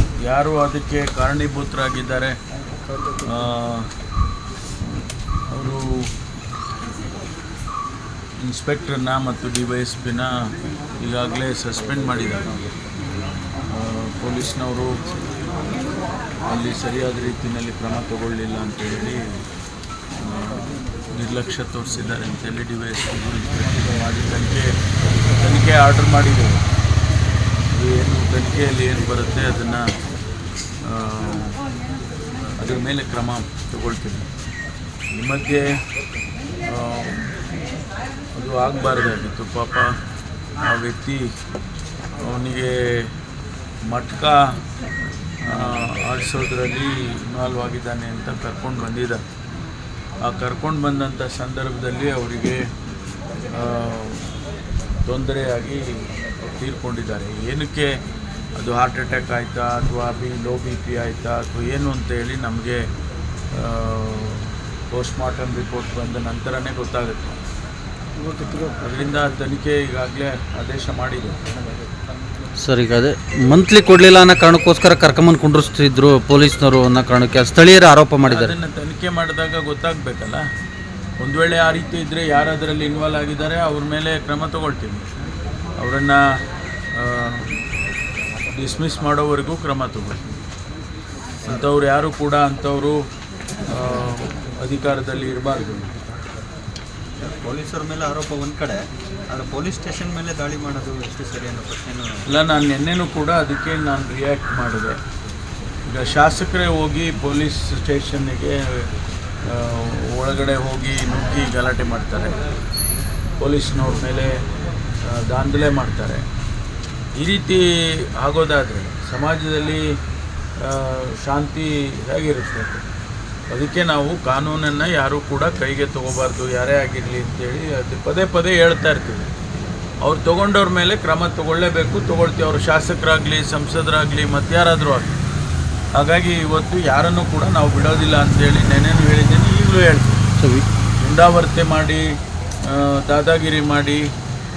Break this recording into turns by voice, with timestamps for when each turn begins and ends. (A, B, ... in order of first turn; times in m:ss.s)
0:00.2-0:02.4 A
0:03.2-0:03.9 A
0:04.8-0:06.1 A
0:08.4-0:10.3 A
0:11.0-0:12.6 A
0:13.7-0:15.0 A
0:16.5-0:19.4 A
0:20.2-0:24.7 A
0:25.4-0:26.6 A
0:27.7-0:29.8 A
0:30.8-0:31.6 A
0:32.6-0:34.3 A
0:35.1-0:35.7 A
0:36.6-0:37.3 A
0:38.3-0:39.9 A
0:40.6-0:41.2 A
0:42.2-0:43.1 A
0:43.9-0:44.4 A
0:45.4-0:49.2 A
0:50.2-0:52.6 A
0:53.5-0:54.4 A
0:55.0-0:57.9 A
0:58.6-1:02.8 A
1:03.5-1:07.4 A
1:08.4-1:11.4 A
1:12.6-1:18.5 B
1:18.2-1:20.4 A
1:21.2-1:25.1 A
1:25.8-1:26.2 A
1:26.9-1:27.5 A
1:28.5-1:30.4 A
1:31.5-1:33.0 A
1:33.7-1:35.9 A
1:37.3-1:42.2 C
1:42.3-1:45.0 A
1:45.9-1:48.9 A
1:49.4-1:52.4 A
1:53.4-1:54.4 A
1:55.1-1:56.2 A
1:57.2-1:59.8 A
2:00.6-2:02.8 A
2:03.5-2:09.3 A
2:10.0-2:15.1 A
2:16.0-2:20.2 A
2:20.4-2:20.6 B
2:21.0-2:22.0 A
2:22.6-2:24.0 A